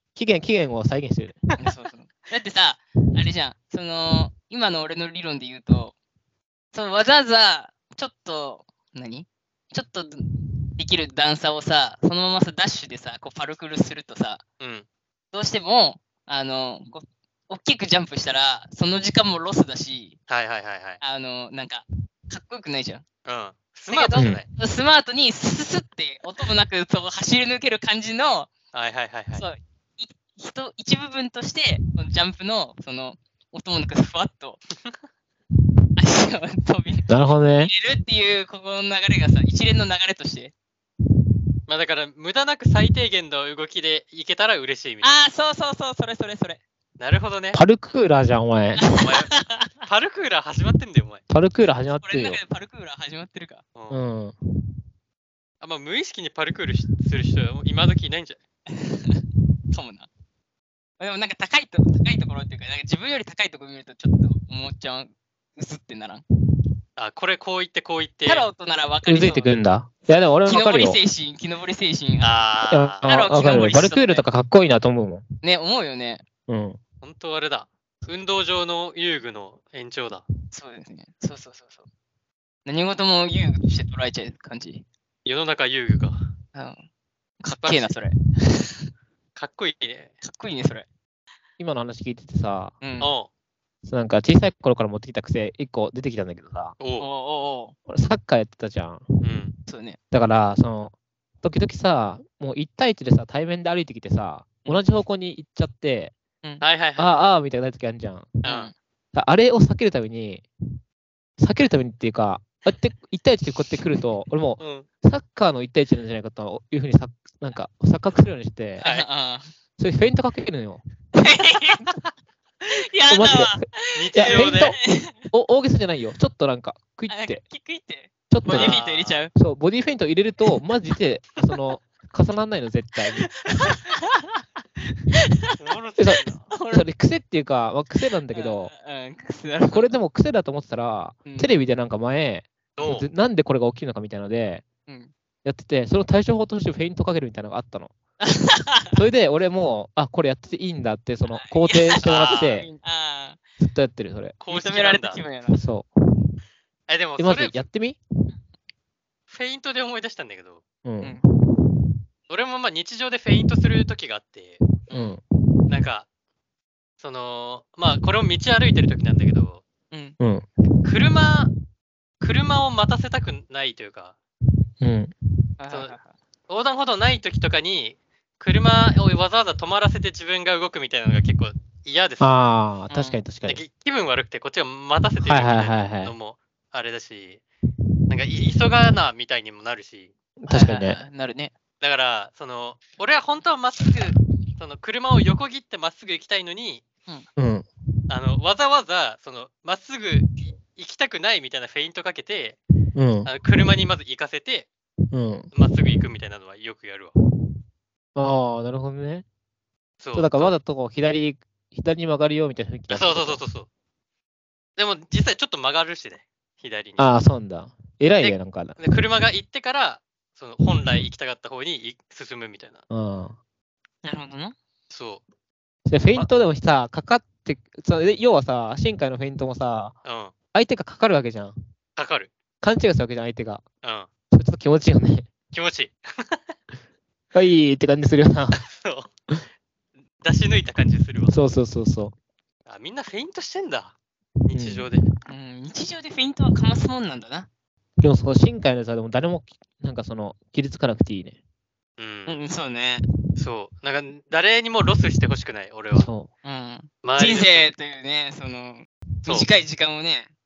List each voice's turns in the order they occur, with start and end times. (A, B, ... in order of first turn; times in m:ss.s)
0:00.2-0:01.4 A
0:01.6-0:05.9 B
0:06.7-0:14.4 B
0:14.6-0:14.9 C
0:15.3-0:20.2 B
0:20.3-0:21.0 C
0:21.0-0:23.0 B
0:23.2-0:24.4 C
0:23.9-0:28.5 B
0:24.2-0:24.4 A
0:28.7-0:29.4 C
0:29.4-0:34.6 B
0:36.0-0:40.5 B
0:37.1-0:37.7 A
0:41.7-0:45.2 C
0:45.0-0:46.6 B
0:47.0-0:47.6 C
0:47.5-0:48.8 A
0:48.8-0:49.8 B
0:48.9-0:49.3 C
0:49.9-0:51.2 C
0:51.3-0:52.4 A
0:51.9-0:53.6 B
0:53.8-0:54.0 C
0:53.9-0:54.4 A
0:55.6-0:58.4 C
0:58.7-1:00.1 B
1:01.0-1:06.2 B
1:07.0-1:08.5 C
1:08.3-1:09.5 B
1:09.1-1:11.0 A
1:10.4-1:12.4 B
1:12.2-1:13.1 C
1:12.7-1:15.2 A
1:13.0-1:14.3 B
1:15.4-1:16.2 B
1:16.5-1:16.8 A
1:17.0-1:20.2 C
1:20.5-1:21.9 B
1:22.7-1:24.8 B
1:25.2-1:26.2 C
1:26.5-1:26.8 B
1:27.4-1:28.9 B
1:27.6-1:27.9 C
1:29.4-1:30.1 C
1:30.2-1:30.9 B
1:31.6-1:32.8 A
1:32.8-1:33.2 B
1:33.0-1:33.3 C
1:33.8-1:36.8 A
1:36.8-1:37.1 C
1:37.0-1:37.8 B
1:37.9-1:39.1 A
1:39.2-1:39.5 C
1:39.7-1:40.0 B
1:40.1-1:46.1 A
1:46.6-1:47.3 C
1:47.0-1:48.4 A
1:48.4-1:48.7 B
1:48.4-1:48.7 C
1:49.2-1:50.4 A
1:51.4-1:58.8 A
1:54.6-1:54.9 C
1:58.8-1:59.1 C
1:58.8-1:59.5 B
1:59.8-2:00.8 A
2:01.2-2:01.9 B
2:02.6-2:05.3 B
2:03.1-2:03.6 A
2:04.0-2:04.8 C
2:04.2-2:07.4 A
2:07.1-2:09.3 B
2:08.3-2:08.8 A
2:08.5-2:09.2 C
2:09.4-2:13.3 A
2:13.6-2:14.2 B
2:15.1-2:15.6 B
2:15.6-2:16.5 C
2:16.0-2:18.7 A
2:16.5-2:16.9 B
2:18.3-2:19.9 B
2:19.7-2:24.6 A
2:21.2-2:21.5 B
2:22.8-2:23.1 C
2:24.9-2:25.1 B
2:25.4-2:27.9 A
2:28.2-2:29.0 B
2:28.9-2:32.7 A
2:31.3-2:33.4 B
2:32.0-2:32.6 C
2:33.6-2:34.4 A
2:34.4-2:35.2 C
2:34.5-2:35.6 B
2:35.5-2:36.3 A
2:36.9-2:37.6 C
2:37.2-2:38.0 A
2:39.3-2:40.6 C
2:40.8-2:41.7 A
2:42.3-2:44.6 C
2:44.9-2:45.2 B
2:44.9-2:45.2 A
2:45.7-2:46.1 C
2:47.0-2:49.6 C
2:49.9-2:50.2 B
2:50.2-2:50.5 A
2:50.8-2:51.5 C
2:52.2-2:54.2 C
2:54.8-2:55.1 A
2:55.6-2:56.2 B
2:56.5-3:02.3 C
3:02.2-3:03.6 A
3:02.9-3:03.2 B
3:03.5-3:07.4 C
3:05.2-3:06.1 A
3:08.1-3:10.1 C
3:10.4-3:11.0 A
3:10.5-3:11.5 B
3:11.8-3:16.8 C
3:17.4-3:17.7 A
3:18.1-3:22.6 C
3:23.0-3:23.3 A
3:23.2-3:24.7 C
3:25.1-3:25.5 A
3:25.5-3:27.1 C
3:28.2-3:29.2 A
3:30.0-3:30.6 C
3:30.1-3:33.4 A
3:32.9-3:33.7 C
3:34.8-3:37.1 C
3:37.0-3:38.8 A
3:38.2-3:42.8 C
3:42.9-3:43.4 A
3:44.0-3:44.6 B
3:44.9-3:45.2 C
3:45.9-3:49.9 A
3:50.0-3:50.3 C
3:50.5-3:51.6 A
3:52.0-3:52.3 C
3:52.6-3:53.6 A
3:53.8-3:54.1 C
3:54.3-3:55.3 A
3:55.5-3:56.4 C
3:57.3-3:58.6 A
3:58.6-3:59.1 C
4:00.2-4:01.3 C
4:01.3-4:02.1 A
4:02.7-4:03.9 C
4:04.4-4:05.1 C
4:04.5-4:04.9 A
4:05.3-4:07.5 B
4:08.0-4:11.4 A
4:12.0-4:12.4 C
4:12.3-4:13.0 B
4:13.4-4:16.1 C
4:15.9-4:16.3 A
4:16.4-4:20.3 B
4:17.0-4:17.7 C